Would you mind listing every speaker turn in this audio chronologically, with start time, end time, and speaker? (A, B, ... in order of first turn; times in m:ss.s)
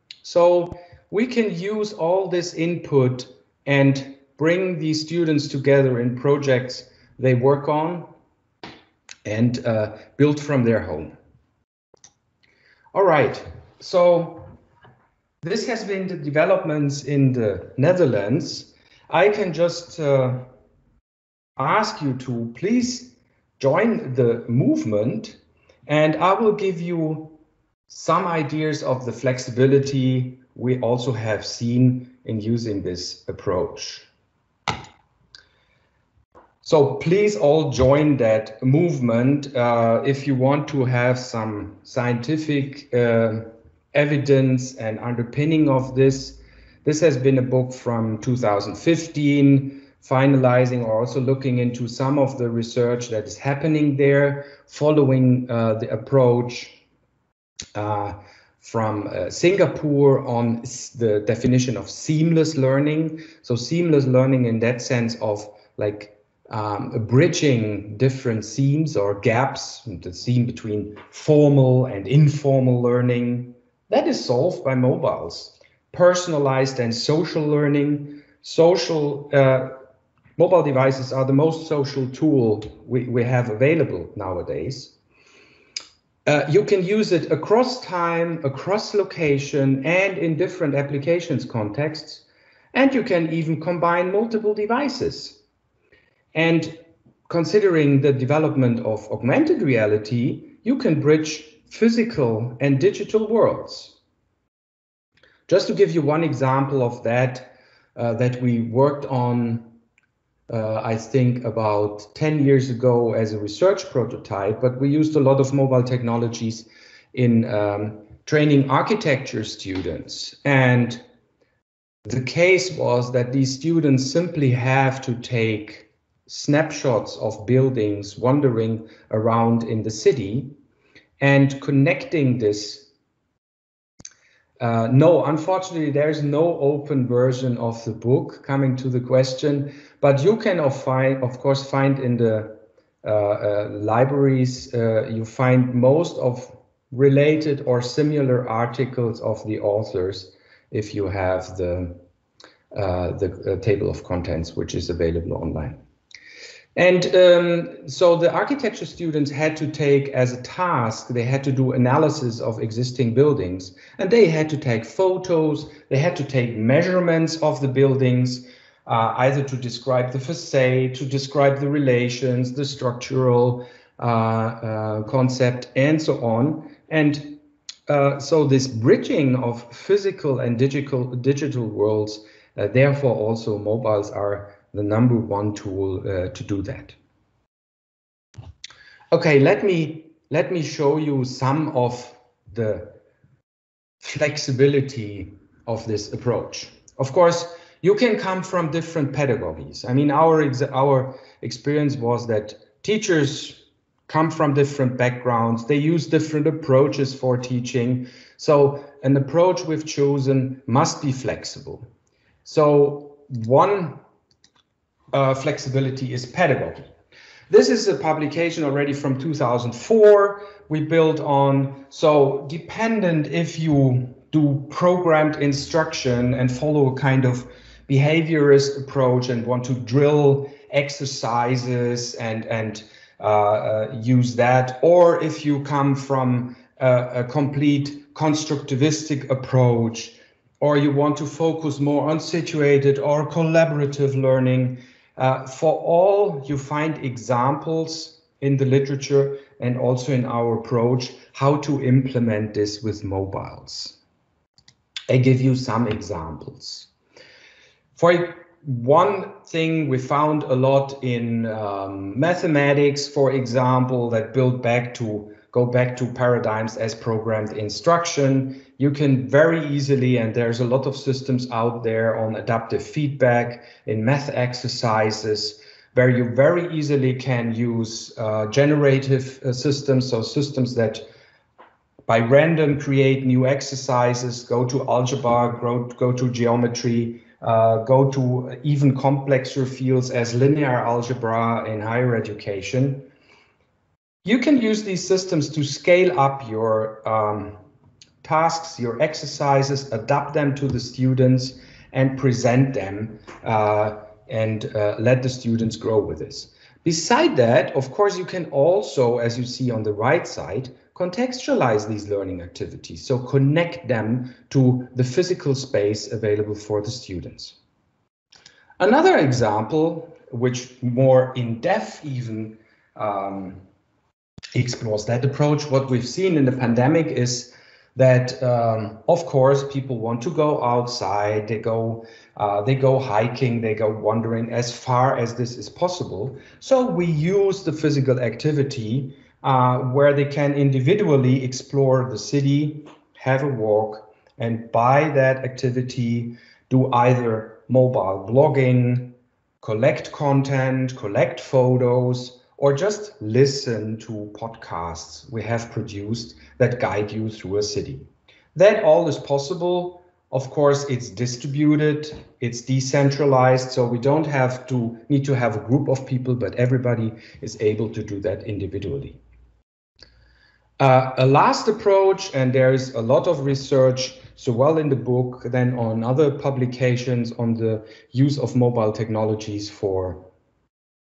0:00.2-0:08.1 A
0:09.2-0:11.1 A
0:12.9-0:14.5 A
0:15.4-0:20.4 A
0:21.6-0:27.4 A
0:27.9-0:34.1 A
0:36.6-0:56.8 A
0:57.7-1:19.8 A
1:20.4-1:24.9 A
1:26.2-1:35.4 A
1:36.3-1:44.0 A
1:45.5-1:49.7 A
1:50.5-2:01.0 A
2:02.0-2:10.6 A
2:11.2-2:12.9 A
2:14.6-2:32.0 A
2:32.7-2:35.8 A
2:36.7-3:07.0 A
3:09.1-3:12.9 A
3:14.0-3:31.9 A
3:32.4-3:34.0 A
3:35.1-3:36.9 A
3:37.5-4:14.0 A
4:15.1-4:16.9 A
4:18.0-4:41.0 A
4:42.1-4:53.1 A
4:54.2-4:57.6 A
4:58.2-5:17.6 A
5:18.8-5:23.6 A
5:24.5-6:09.2 A
6:10.8-6:20.3 A